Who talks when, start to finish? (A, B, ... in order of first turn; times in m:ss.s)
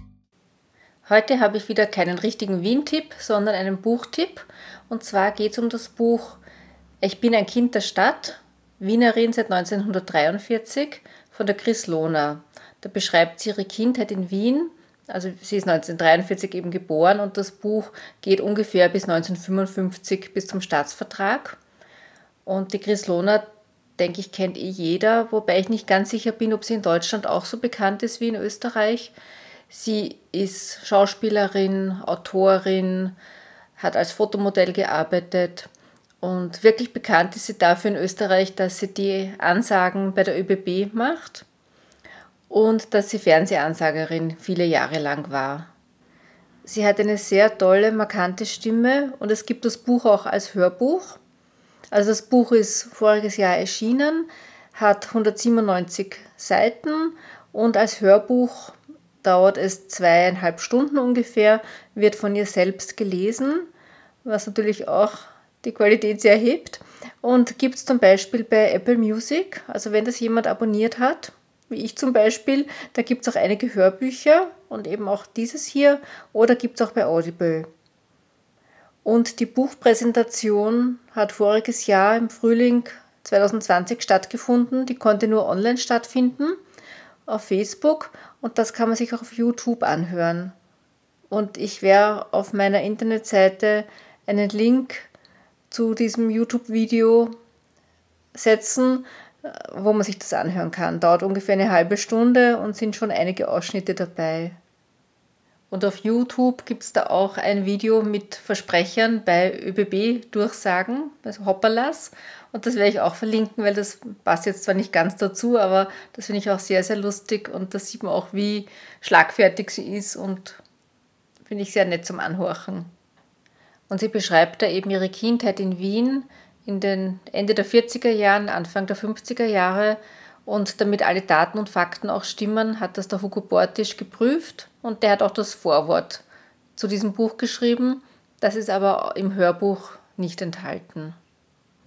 0:01.0-0:06.4 A
0:07.0-0:21.6 A
0:22.4-0:23.4 A
0:24.0-0:29.1 A
0:29.7-0:33.2 A
0:33.8-0:35.7 A
0:36.2-0:41.4 A
0:42.5-0:45.7 A
0:46.6-0:51.2 A
0:51.9-1:03.7 A
1:04.2-1:17.7 A
1:19.0-1:26.6 A
1:27.3-1:30.5 A
1:31.3-1:35.1 A
1:35.7-1:37.3 A
1:38.3-1:44.6 A
1:45.7-2:00.6 A
2:01.4-2:02.9 A
2:03.9-2:16.2 A
2:16.8-2:21.2 A